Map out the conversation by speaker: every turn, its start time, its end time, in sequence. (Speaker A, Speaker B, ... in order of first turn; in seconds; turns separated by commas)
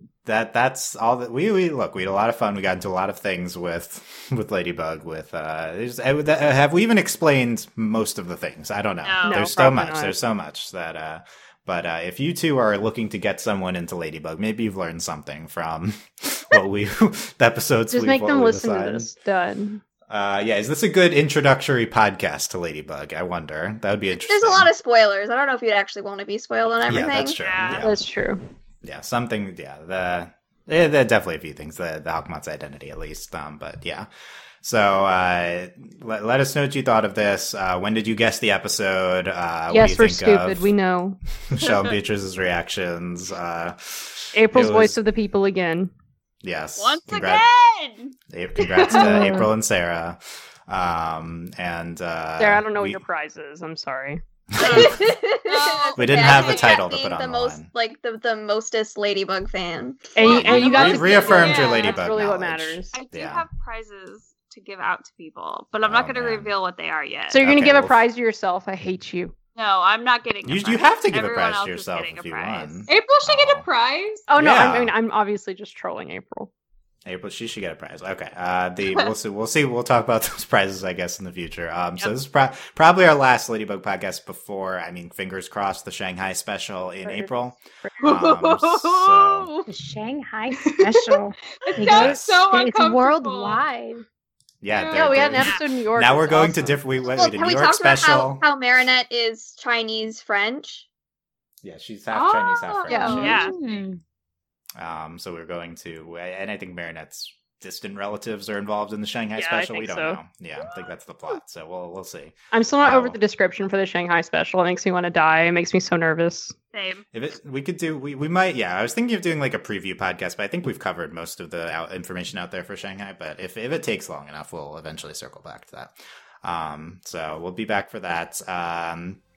Speaker A: 0.2-19.1, Speaker B: 9.0-9.5, Speaker C: 9.2-10.2, Speaker C: 17.9-19.8, Speaker A: 20.1-24.7, Speaker D: 24.2-27.4, Speaker A: 26.9-28.0, Speaker B: 27.3-27.9, Speaker C: 27.7-28.4, Speaker A: 28.8-34.1, Speaker A: 34.6-40.7, Speaker C: 39.7-41.2, Speaker A: 41.5-45.0, Speaker B: 41.6-42.0, Speaker C: 44.3-45.9, Speaker A: 46.4-47.5, Speaker B: 46.8-48.1, Speaker A: 48.3-53.0, Speaker E: 48.6-49.2, Speaker F: 48.9-49.5, Speaker C: 52.4-54.2, Speaker A: 54.5-55.1, Speaker D: 54.6-60.2, Speaker B: 54.6-55.0, Speaker E: 55.5-56.7, Speaker A: 56.0-57.7, Speaker B: 56.4-56.8, Speaker C: 60.1-63.0, Speaker A: 60.2-63.5, Speaker E: 60.3-61.9, Speaker B: 60.3-62.1, Speaker B: 62.9-67.4, Speaker A: 65.8-66.5, Speaker C: 67.3-69.3, Speaker A: 67.4-68.0, Speaker B: 69.6-72.9, Speaker A: 70.5-73.7, Speaker E: 72.9-74.3, Speaker C: 74.3-76.5, Speaker A: 74.3-74.9, Speaker A: 77.0-89.5, Speaker C: 87.0-88.1, Speaker B: 88.0-89.7, Speaker F: 89.7-94.0, Speaker E: 90.6-93.6, Speaker A: 91.8-92.4, Speaker A: 94.6-98.4, Speaker C: 94.9-96.8, Speaker D: 97.1-100.9, Speaker A: 101.6-103.4, Speaker E: 102.1-103.8, Speaker C: 102.9-103.4, Speaker B: 103.0-103.6, Speaker F: 103.1-104.0, Speaker A: 104.8-113.2, Speaker C: 109.4-110.2, Speaker C: 112.5-116.5, Speaker B: 116.7-117.0, Speaker A: 117.1-129.2